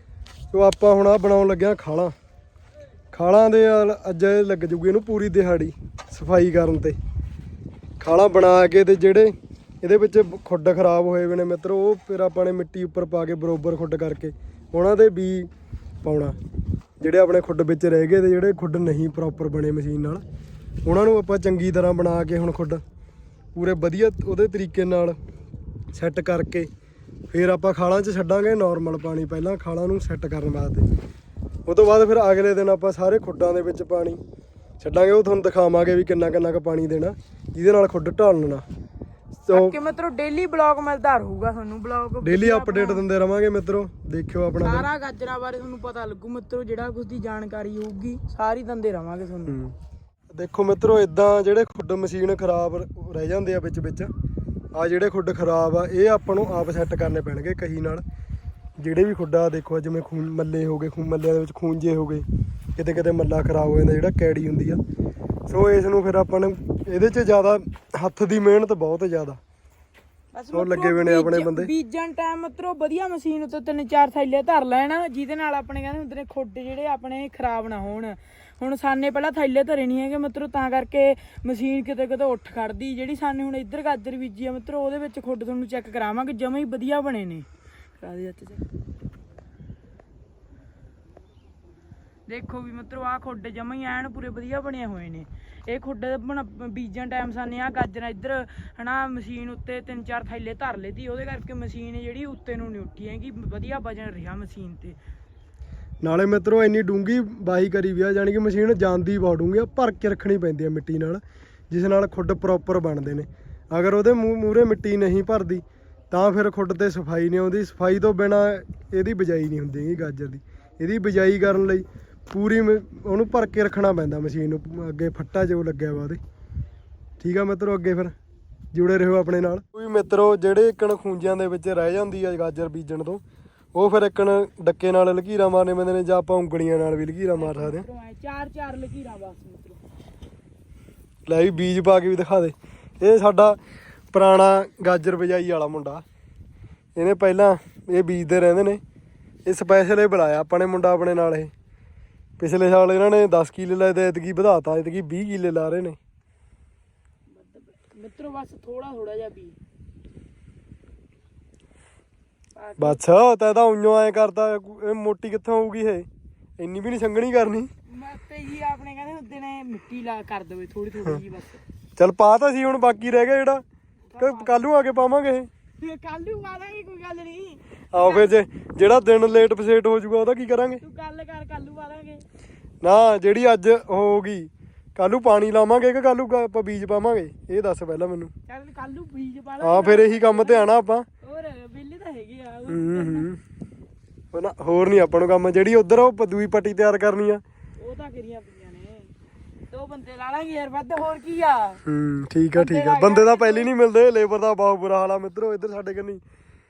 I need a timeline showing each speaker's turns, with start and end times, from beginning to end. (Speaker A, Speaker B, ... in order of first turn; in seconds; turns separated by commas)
Speaker A: 0.5-2.1, Speaker A: 3.1-7.0, Speaker A: 8.0-15.5, Speaker A: 16.0-16.4, Speaker A: 17.0-20.2, Speaker A: 20.9-22.8, Speaker A: 23.6-25.2, Speaker A: 25.9-26.7, Speaker A: 27.3-30.9, Speaker A: 31.7-34.2, Speaker A: 34.8-38.6, Speaker A: 39.5-39.8, Speaker B: 39.5-43.0, Speaker A: 42.2-44.9, Speaker B: 44.6-49.6, Speaker A: 49.5-49.8, Speaker A: 50.3-54.1, Speaker A: 54.7-58.0, Speaker A: 58.8-62.2, Speaker A: 62.8-64.8, Speaker A: 65.5-69.4, Speaker B: 70.3-87.5, Speaker A: 70.5-71.7, Speaker B: 88.0-88.6, Speaker B: 92.3-105.0, Speaker A: 106.0-126.2, Speaker A: 127.2-128.1, Speaker A: 128.7-133.2, Speaker A: 133.8-137.9, Speaker B: 137.3-139.8, Speaker A: 141.3-143.6, Speaker A: 144.1-146.0, Speaker A: 147.0-148.8, Speaker A: 149.5-151.5, Speaker A: 152.4-156.0, Speaker B: 157.3-159.6, Speaker B: 162.6-163.0, Speaker A: 162.8-166.1, Speaker A: 166.6-167.7, Speaker B: 167.9-171.6, Speaker A: 172.0-173.6, Speaker B: 174.1-174.6, Speaker A: 174.2-175.5, Speaker B: 175.8-178.3, Speaker A: 177.9-180.8, Speaker B: 180.8-182.2, Speaker A: 182.8-188.3, Speaker B: 188.5-193.3, Speaker A: 189.6-191.1, Speaker A: 192.7-193.4, Speaker A: 194.3-197.4, Speaker B: 197.8-199.1, Speaker B: 199.7-201.8, Speaker A: 201.9-206.2, Speaker B: 202.6-203.7